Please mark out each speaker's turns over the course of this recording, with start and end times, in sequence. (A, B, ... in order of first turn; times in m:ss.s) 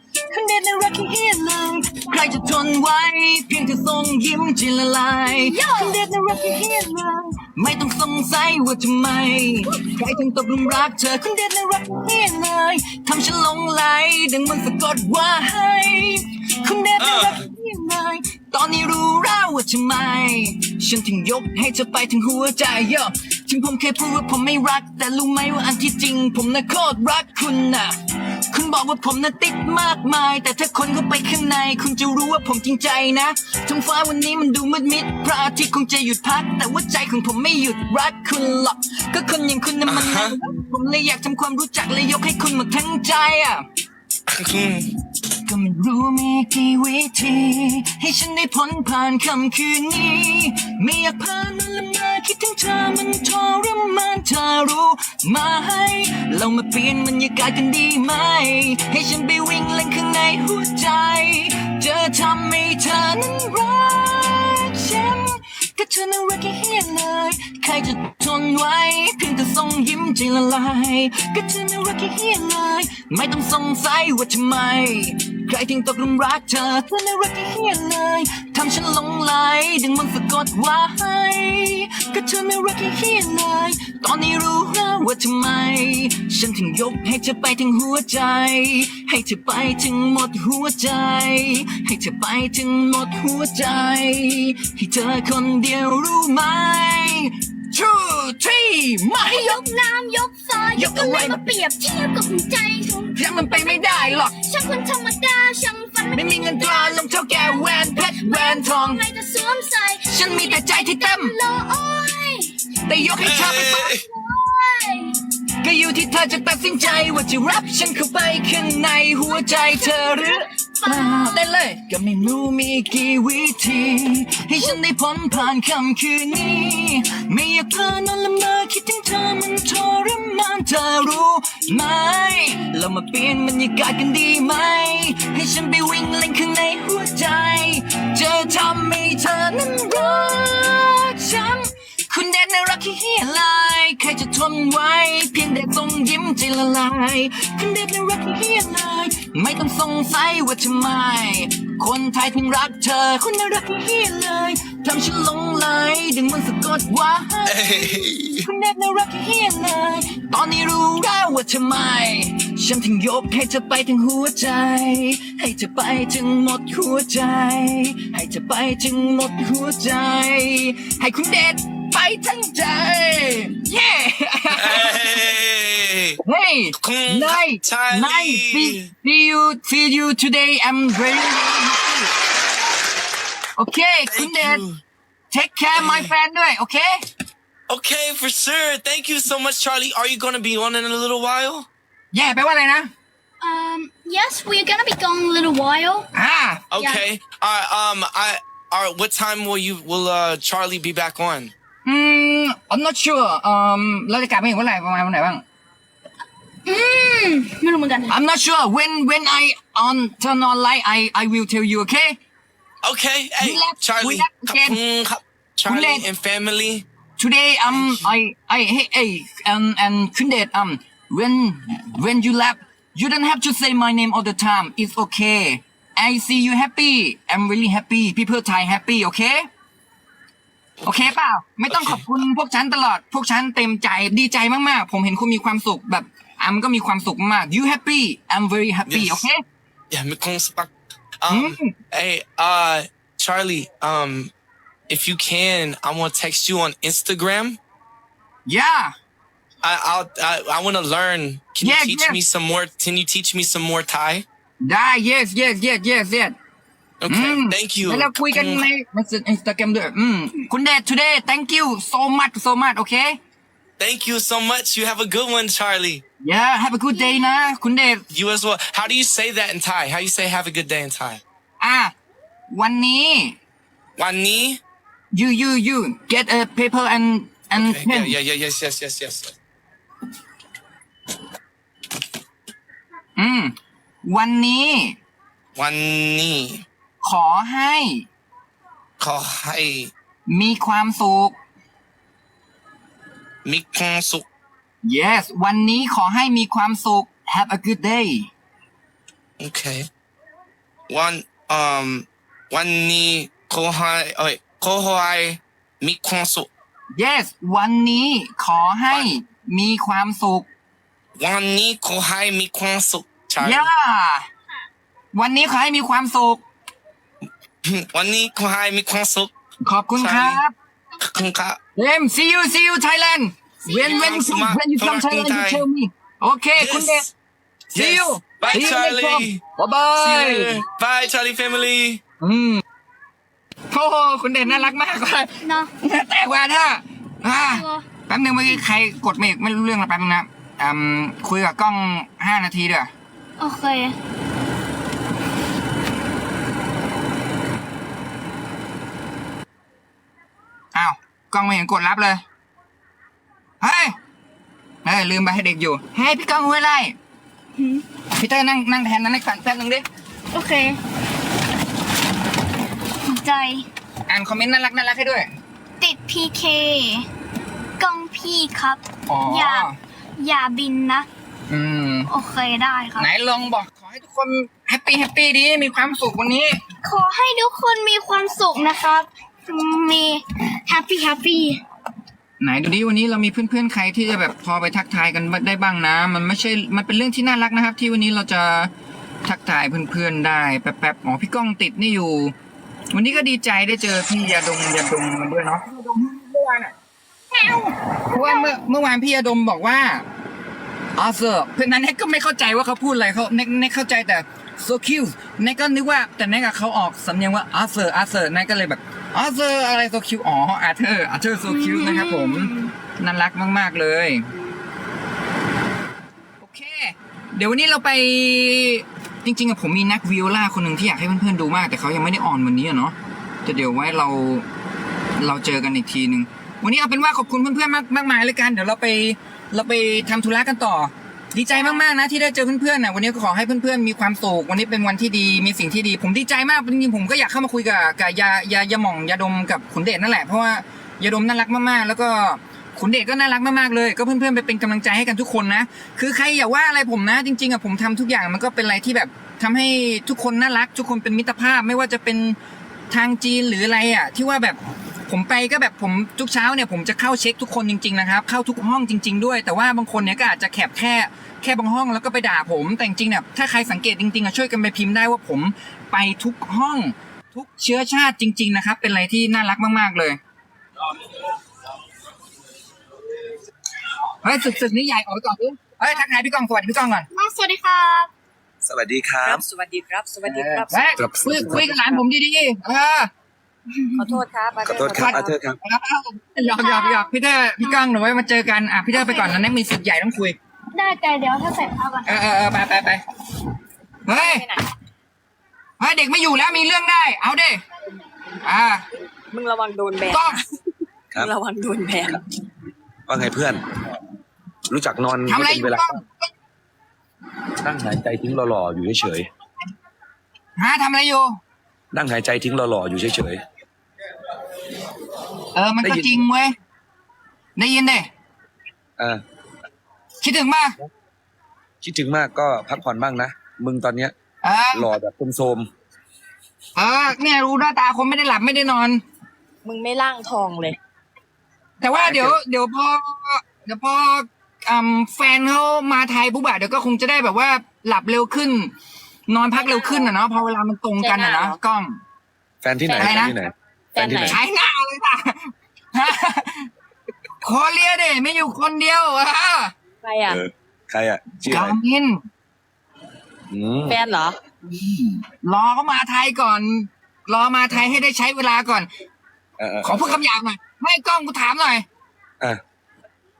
0:00.3-0:43.6 A
0:05.3-0:06.0 B
0:17.0-0:17.4 C
0:39.9-0:40.4 C
0:44.3-0:44.9 C
0:45.4-1:39.6 A
1:39.2-1:55.2 B
1:40.7-1:41.5 A
1:43.1-1:44.4 A
1:46.1-1:49.0 A
1:50.1-1:51.4 A
1:52.8-1:53.9 A
1:53.2-1:54.0 C
1:55.6-2:55.1 A
1:56.8-1:57.2 B
1:59.1-2:01.5 B
2:37.4-2:38.5 C
2:54.5-2:56.2 C
2:56.2-3:02.1 A
2:56.8-2:58.9 C
3:03.6-3:04.6 A
3:04.1-3:04.8 C
3:05.3-3:07.0 A
3:05.8-3:06.1 C
3:07.7-3:11.7 C
3:12.1-3:12.9 A
3:13.4-3:16.1 B
3:16.1-3:16.7 A
3:16.7-3:21.5 C
3:16.8-3:17.0 B
3:21.8-3:25.4 A
3:26.6-3:28.1 B
3:28.1-3:32.2 A
3:32.8-3:36.8 C
3:33.4-3:34.8 A
3:35.6-3:36.0 A
3:37.2-3:49.5 A
3:37.7-3:38.1 C
3:50.8-3:59.4 A
3:51.7-3:52.0 C
3:58.9-3:59.2 C
3:59.9-4:04.3 C
4:01.3-4:01.7 A
4:04.9-4:07.6 C
4:08.4-4:08.9 A
4:09.6-4:14.2 C
4:11.6-4:12.2 A
4:14.6-4:16.3 A
4:17.0-4:18.6 C
4:17.1-4:23.2 A
4:23.8-4:26.0 C
4:26.2-4:28.0 A
4:28.1-4:31.2 C
4:31.6-4:31.9 A
4:32.5-4:33.4 A
4:34.0-4:34.6 C
4:35.1-4:38.1 A
4:37.5-4:39.3 C
4:43.2-4:45.0 A
4:45.6-4:46.6 C
4:47.0-4:48.0 A
4:49.0-4:49.9 C
4:50.3-4:51.4 A
4:53.4-4:54.2 C
4:54.8-4:58.3 A
4:59.4-4:59.9 C
5:00.9-5:06.5 C
5:07.0-5:10.5 A
5:11.2-5:13.7 C
5:13.4-5:14.3 A
5:15.1-5:16.4 A
5:17.6-5:19.3 C
5:19.6-5:20.5 A
5:20.0-5:20.4 C
5:21.0-5:21.6 C
5:21.8-5:27.1 A
5:23.6-5:25.6 C
5:26.6-5:27.1 C
5:27.7-5:29.4 C
5:27.7-5:30.6 A
5:29.9-5:32.0 C
5:32.2-5:32.6 A
5:33.7-5:42.9 A
5:35.4-5:35.7 B
5:37.3-5:37.8 B
5:43.4-5:44.0 B
5:50.7-5:52.2 A
5:53.6-5:54.0 A
5:54.8-5:57.0 A
5:57.6-5:57.8 B
5:58.1-5:59.8 A
6:00.3-6:00.8 B
6:03.0-6:03.6 B
6:04.1-6:05.3 A
6:05.8-6:07.1 B
6:07.8-6:11.1 B
6:09.1-6:09.8 A
6:11.5-6:12.1 A
6:12.1-6:13.1 B
6:13.0-6:16.6 A
6:16.8-6:21.6 B
6:22.4-6:28.7 A
6:29.2-6:32.3 A
6:32.9-6:36.7 A
6:37.3-6:38.5 B
6:37.4-6:40.0 A
6:41.0-6:54.3 A
6:51.5-6:52.7 B
6:56.4-7:04.4 A
7:05.2-7:32.4 A
7:32.9-7:50.2 A
7:54.2-7:57.1 A
7:57.1-7:58.1 B
7:58.6-7:59.4 D
7:59.2-8:02.0 E
8:00.2-8:03.1 A
8:01.0-8:01.7 D
8:03.7-8:04.2 B
8:04.0-8:05.3 E
8:04.6-8:05.6 D
8:05.0-8:10.4 A
8:06.4-8:07.1 B
8:09.0-8:09.3 B
8:10.7-8:12.2 B
8:12.0-8:13.0 A
8:14.0-8:14.4 A
8:14.1-8:14.6 E
8:15.8-8:17.6 A
8:18.4-8:18.8 A
8:19.3-8:20.6 E
8:20.1-8:20.4 A
8:21.1-8:22.2 E
8:23.1-8:23.6 D
8:24.7-8:26.0 D
8:25.3-8:26.3 A
8:27.6-8:29.3 D
8:30.6-8:31.4 A
8:31.9-8:33.4 D
8:35.5-8:36.5 A
8:35.8-8:36.2 D
8:37.6-8:38.1 A
8:40.2-8:40.8 A
8:41.8-8:44.1 D
8:44.4-8:44.9 A
8:44.7-8:45.7 D
8:46.8-8:49.0 A
8:49.6-8:50.8 E
8:51.8-8:58.7 A
8:52.0-8:52.4 D
8:59.3-9:02.0 A
8:59.5-9:00.1 E
9:01.0-9:01.6 E
9:02.6-9:04.4 D
9:02.9-9:03.4 E
9:03.0-9:03.3 A
9:03.9-9:04.4 E
9:04.2-9:06.7 A
9:07.4-9:09.7 A
9:10.0-9:10.4 E
9:10.3-9:11.8 D
9:11.5-9:12.2 A
9:13.5-9:14.0 D
9:13.9-9:14.4 E
9:14.6-9:18.9 A
9:19.6-9:20.2 D
9:19.8-9:21.8 A